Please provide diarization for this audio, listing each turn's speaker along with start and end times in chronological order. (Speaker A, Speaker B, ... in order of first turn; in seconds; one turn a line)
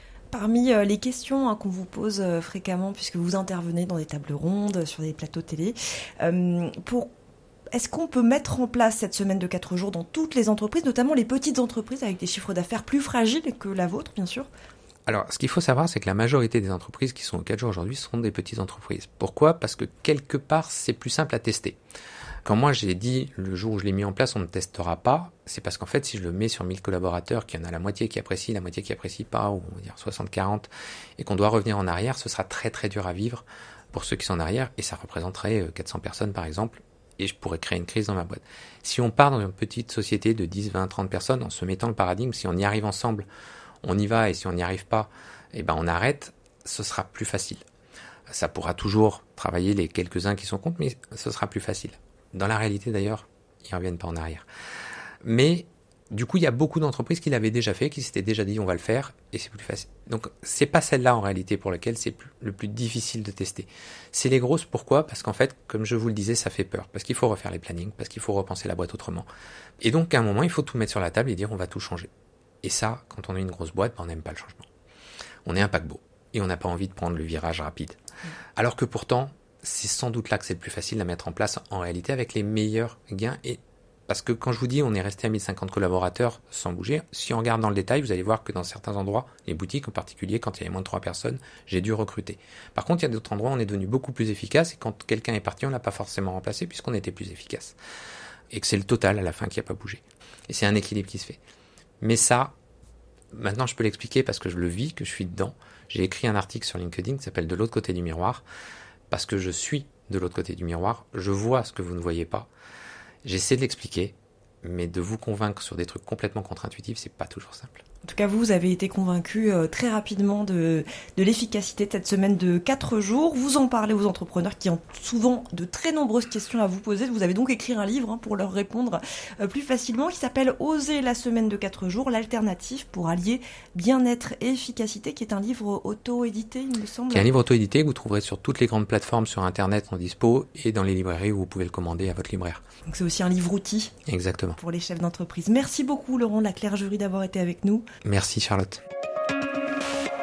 Speaker A: 0.3-7.1
Speaker A: 7.7-14.5
Speaker B: 15.1-21.8
Speaker B: 22.4-43.3
Speaker B: 43.8-47.6
Speaker B: 48.3-54.5
Speaker B: 55.2-69.3
Speaker B: 69.8-72.1
Speaker B: 72.6-74.7
Speaker B: 75.5-78.0
Speaker B: 78.6-97.8
Speaker B: 98.5-101.4
Speaker B: 102.0-102.5
Speaker B: 103.3-108.4
Speaker B: 109.1-112.5
Speaker B: 113.2-117.8
Speaker A: 118.0-137.3
Speaker B: 137.1-142.6
Speaker A: 142.9-144.0
Speaker B: 144.1-144.6
Speaker A: 144.6-147.9
Speaker B: 148.0-148.8